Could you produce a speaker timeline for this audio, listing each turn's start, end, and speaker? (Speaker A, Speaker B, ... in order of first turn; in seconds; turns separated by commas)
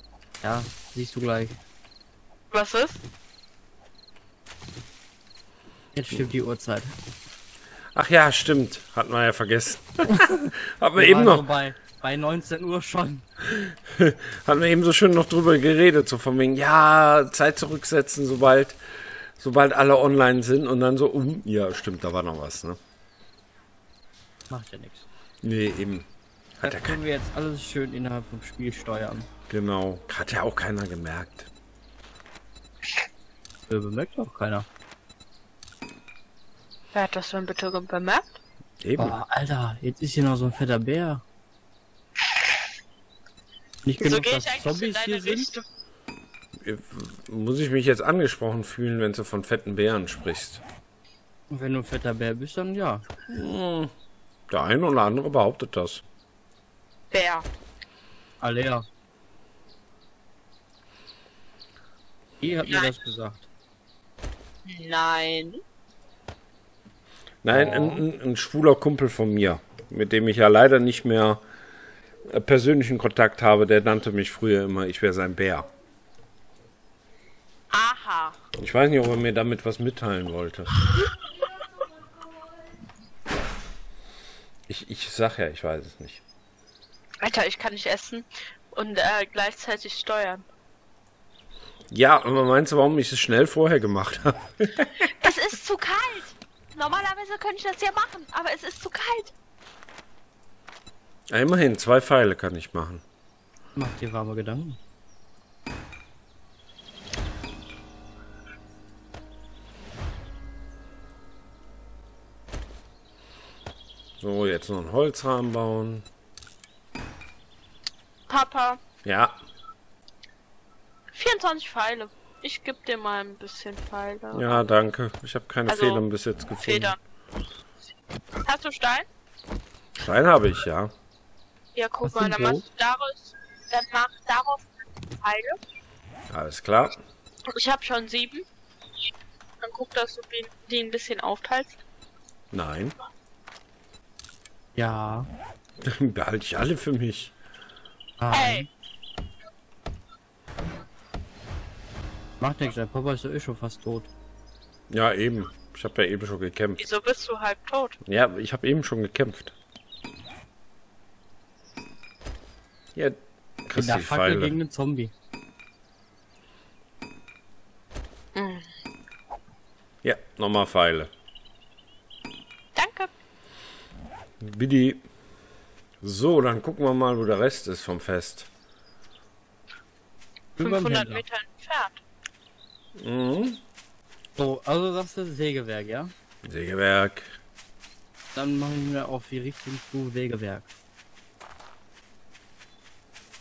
Speaker A: 0.4-1.6, Speaker B: 2.5-3.0, Speaker A: 5.9-7.0, Speaker C: 8.0-11.4, Speaker A: 11.0-13.3, Speaker C: 13.5-18.8, Speaker C: 19.4-22.8, Speaker A: 24.5-25.1, Speaker C: 25.4-26.1, Speaker C: 26.6-27.0, Speaker A: 26.6-29.3, Speaker C: 29.5-31.5, Speaker A: 33.7-34.7, Speaker B: 36.9-38.4, Speaker C: 38.8-39.2, Speaker A: 39.0-41.2, Speaker A: 43.8-45.5, Speaker B: 44.0-45.6, Speaker C: 46.6-50.6, Speaker A: 51.5-53.0, Speaker C: 53.3-53.9, Speaker C: 54.5-56.0, Speaker B: 57.1-57.5, Speaker A: 58.4-58.9, Speaker A: 62.4-63.5, Speaker B: 64.7-65.6, Speaker C: 67.4-71.4, Speaker A: 67.5-68.0, Speaker C: 72.3-75.7, Speaker B: 77.7-78.4, Speaker C: 78.6-80.8, Speaker C: 84.7-86.2, Speaker B: 87.2-90.5, Speaker C: 91.9-95.3, Speaker B: 95.1-99.3, Speaker C: 101.3-103.0, Speaker A: 103.8-104.8, Speaker C: 114.2-116.0, Speaker B: 118.3-118.8, Speaker C: 119.0-119.3, Speaker B: 121.1-124.6, Speaker C: 124.3-127.0, Speaker B: 125.7-126.0, Speaker B: 126.6-127.0, Speaker B: 128.4-129.1, Speaker C: 130.0-130.9, Speaker B: 131.8-134.7, Speaker A: 132.0-132.7, Speaker B: 135.2-135.6, Speaker C: 136.3-137.0, Speaker B: 137.5-138.5, Speaker B: 139.6-141.8, Speaker C: 142.5-143.0, Speaker A: 144.8-145.3, Speaker C: 145.8-147.3, Speaker A: 148.2-148.7, Speaker B: 148.3-148.7, Speaker A: 152.4-154.1, Speaker C: 154.9-156.8, Speaker B: 156.8-158.0, Speaker C: 158.1-159.5, Speaker C: 163.0-164.6, Speaker A: 163.8-165.1, Speaker B: 168.3-168.7, Speaker C: 170.0-171.1, Speaker B: 172.8-173.1, Speaker C: 174.4-175.0, Speaker C: 176.0-178.5, Speaker A: 180.6-181.2, Speaker B: 180.6-182.0, Speaker C: 183.0-183.6, Speaker A: 184.4-186.1, Speaker C: 186.4-187.3, Speaker A: 188.3-190.7